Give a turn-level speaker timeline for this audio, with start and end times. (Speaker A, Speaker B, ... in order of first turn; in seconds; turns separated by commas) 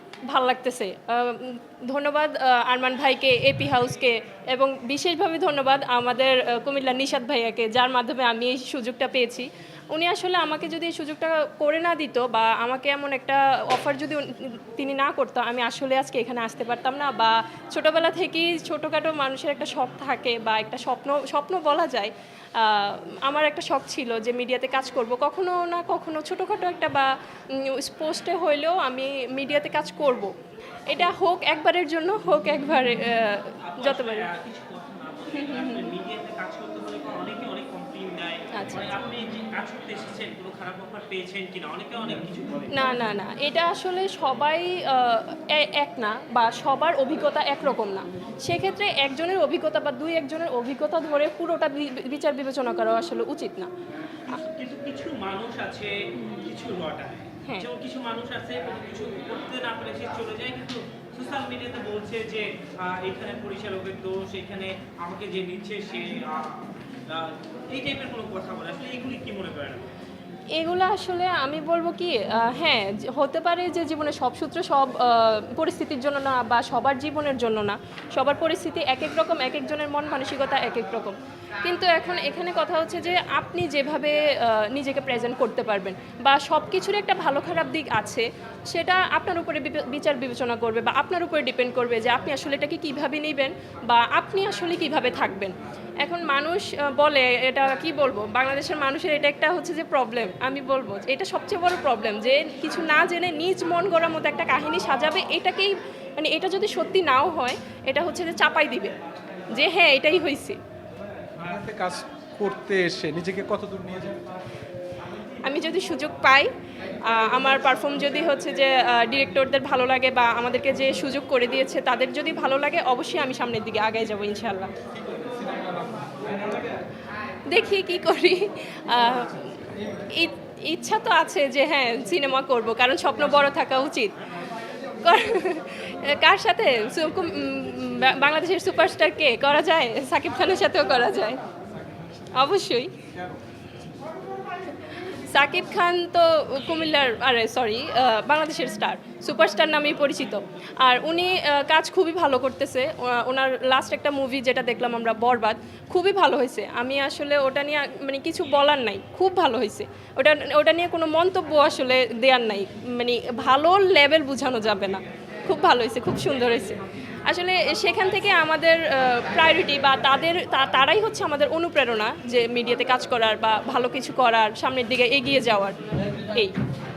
Speaker A: 0.3-30.3, Speaker A: 30.9-34.3, Speaker B: 33.6-42.7, Speaker A: 35.3-35.9, Speaker A: 38.5-39.0, Speaker A: 42.7-53.7, Speaker B: 54.3-69.9, Speaker A: 70.5-109.0, Speaker A: 109.5-110.6, Speaker C: 111.4-114.2, Speaker A: 115.3-116.5, Speaker A: 117.0-124.7, Speaker C: 125.2-126.2, Speaker A: 127.5-129.5, Speaker A: 130.1-134.2, Speaker A: 135.0-141.4, Speaker A: 142.3-142.9, Speaker A: 145.3-176.6